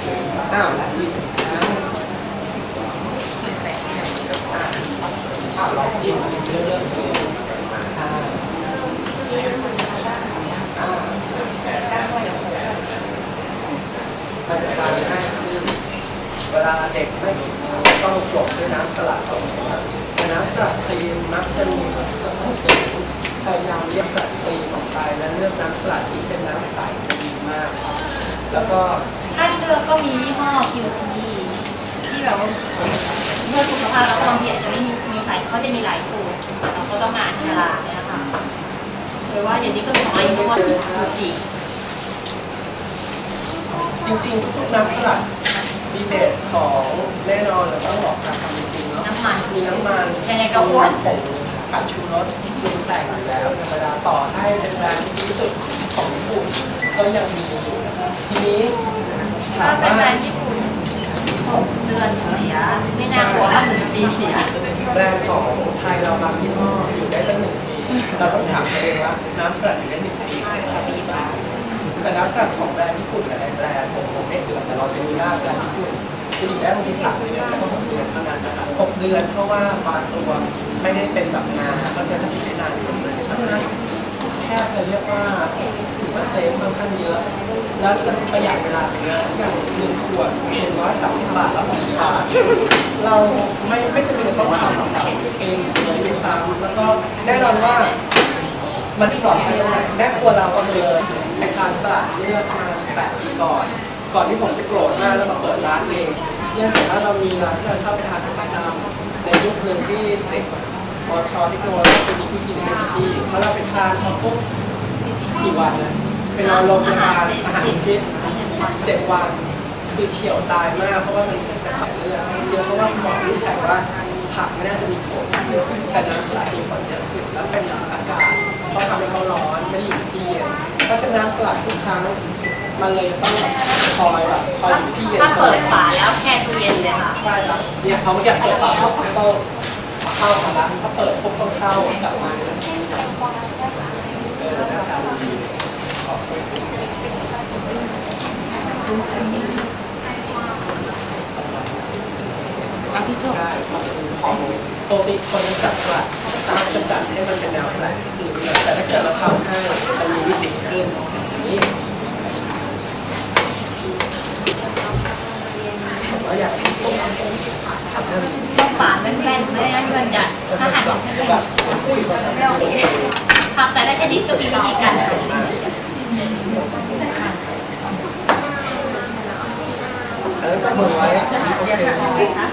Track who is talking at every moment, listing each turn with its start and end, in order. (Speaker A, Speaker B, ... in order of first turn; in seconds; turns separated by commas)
Speaker A: 0.5-1.9, Speaker A: 4.5-4.8, Speaker A: 5.5-7.3, Speaker A: 7.9-8.4, Speaker A: 10.8-11.2, Speaker A: 11.9-12.8, Speaker A: 14.5-15.7, Speaker A: 16.5-27.8, Speaker A: 28.5-29.0, Speaker B: 29.3-38.3, Speaker B: 39.3-41.4, Speaker A: 40.1-41.2, Speaker A: 44.0-45.2, Speaker A: 45.9-58.8, Speaker B: 49.0-49.5, Speaker B: 50.2-51.0, Speaker A: 59.5-60.2, Speaker B: 59.6-60.7, Speaker B: 61.4-64.5, Speaker A: 63.1-63.6, Speaker A: 64.3-71.4, Speaker B: 70.7-71.4, Speaker A: 72.0-83.7, Speaker A: 84.4-87.2, Speaker A: 87.8-92.3, Speaker A: 93.0-98.0, Speaker A: 99.0-110.5, Speaker B: 99.1-100.0, Speaker A: 111.1-114.4, Speaker A: 115.2-118.1, Speaker B: 116.4-118.8, Speaker A: 118.8-119.4, Speaker A: 119.9-132.2, Speaker A: 132.8-135.8, Speaker B: 134.6-137.2, Speaker A: 137.2-139.4, Speaker B: 138.4-138.9, Speaker A: 140.1-142.6, Speaker A: 144.3-146.8, Speaker A: 151.3-152.4, Speaker A: 153.2-161.7, Speaker A: 166.0-167.4, Speaker A: 167.9-168.5, Speaker B: 168.5-171.4, Speaker A: 170.5-173.2, Speaker B: 173.5-178.0, Speaker A: 173.9-175.6, Speaker A: 180.4-182.2, Speaker B: 181.2-182.0